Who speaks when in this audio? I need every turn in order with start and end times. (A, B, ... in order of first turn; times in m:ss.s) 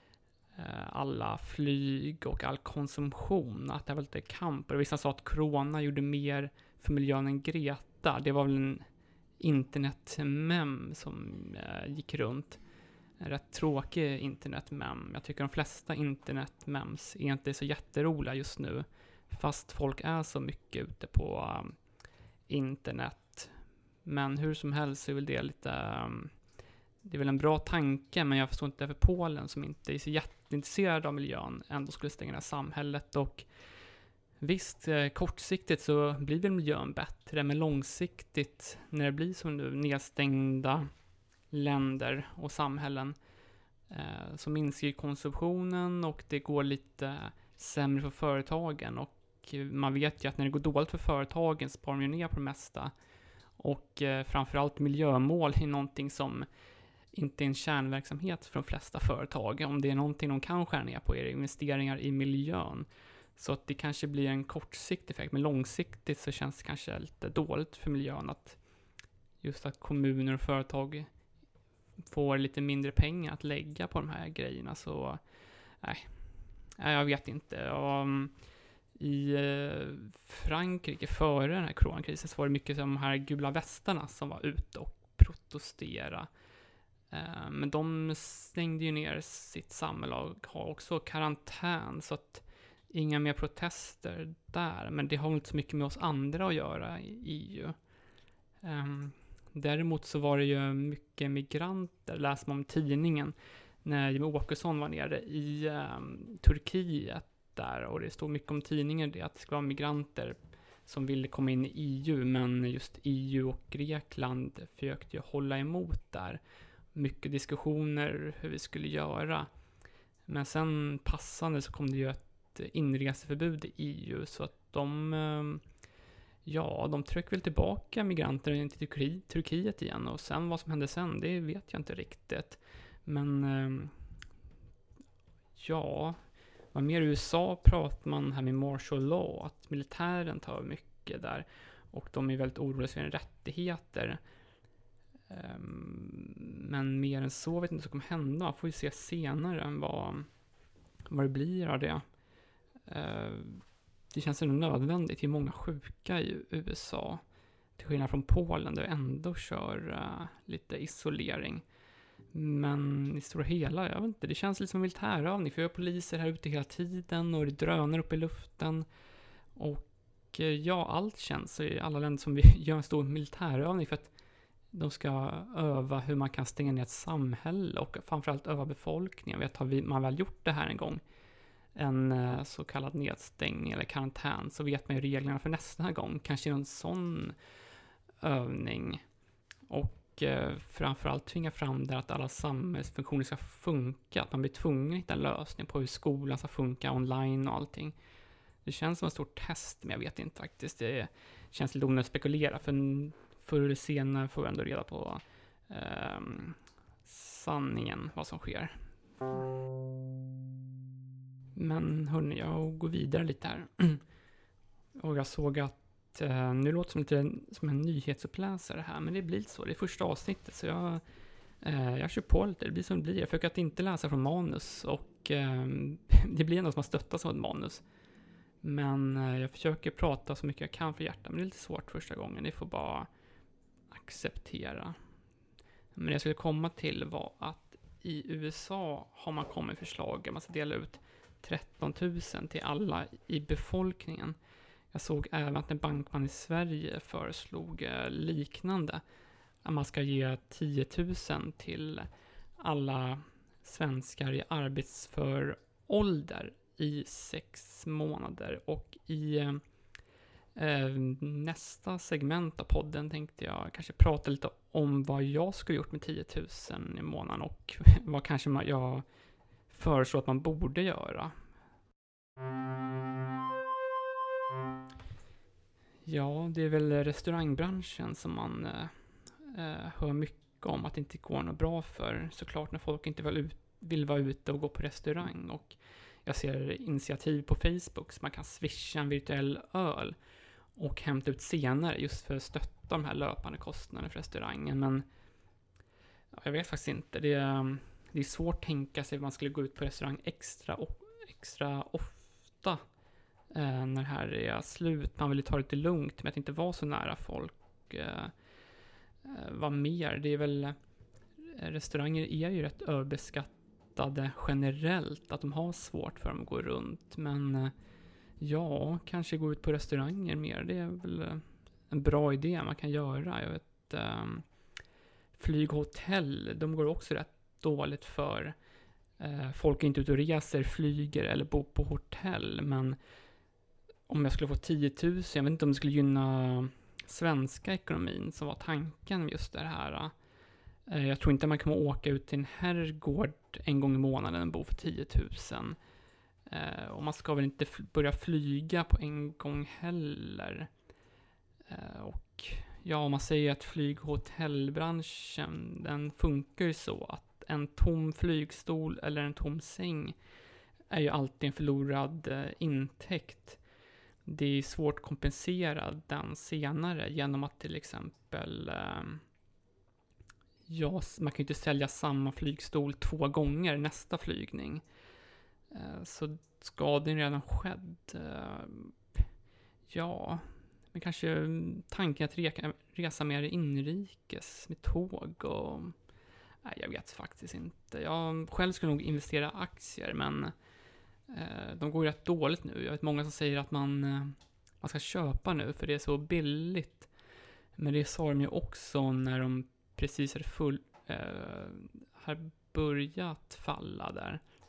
0:00.6-0:08.9 A
0:09.4-0:12.6 A
0:13.2-0:21.8 A
0:22.5-0:26.3 A
0:27.0-0:33.5 A
0:34.4-0:40.9 A
0:41.5-0:43.2 A
0:43.9-0:52.9 A
0:53.6-0:56.5 A
0:57.1-1:08.6 A
1:09.4-1:11.1 A
1:12.1-1:15.2 A
1:15.8-1:16.2 A
1:16.8-1:18.3 A
1:19.0-1:26.3 A
1:27.1-1:37.8 A
1:38.6-1:56.4 A
1:57.0-1:59.5 A
2:00.3-2:05.6 A
2:06.4-2:13.9 A
2:15.6-2:16.2 A
2:16.7-2:24.2 A
2:25.3-2:30.3 A
2:31.1-2:32.0 A
2:32.9-2:37.2 A
2:37.8-2:41.6 A
2:42.3-2:48.9 A
2:49.6-2:54.1 A
2:54.7-3:01.0 A
3:01.8-3:07.4 A
3:08.2-3:09.0 A
3:09.7-3:18.0 A
3:18.6-3:28.8 A
3:31.6-3:34.0 A
3:35.0-3:41.0 A
3:41.6-3:47.8 A
3:48.6-3:53.1 A
3:53.9-3:55.0 A
3:56.0-4:04.4 A
4:04.9-4:09.0 A
4:09.6-4:19.6 A
4:20.6-4:29.0 A
4:29.7-4:31.3 A
4:36.1-4:50.2 A
4:50.8-4:55.1 A
4:56.3-5:02.8 A
5:03.5-5:08.3 A
5:09.2-5:10.8 A
5:11.5-5:17.7 A
5:18.4-5:24.5 A
5:25.4-5:28.6 A
5:29.2-5:33.0 A
5:34.1-5:40.1 A
5:40.9-5:45.8 A
5:46.5-5:50.7 A
5:51.7-6:00.2 A
6:00.9-6:03.6 A
6:04.2-6:09.2 A
6:10.7-6:14.8 A
6:15.7-6:19.0 A
6:19.9-6:26.0 A
6:26.6-6:30.5 A
6:31.3-6:37.1 A
6:37.8-6:44.4 A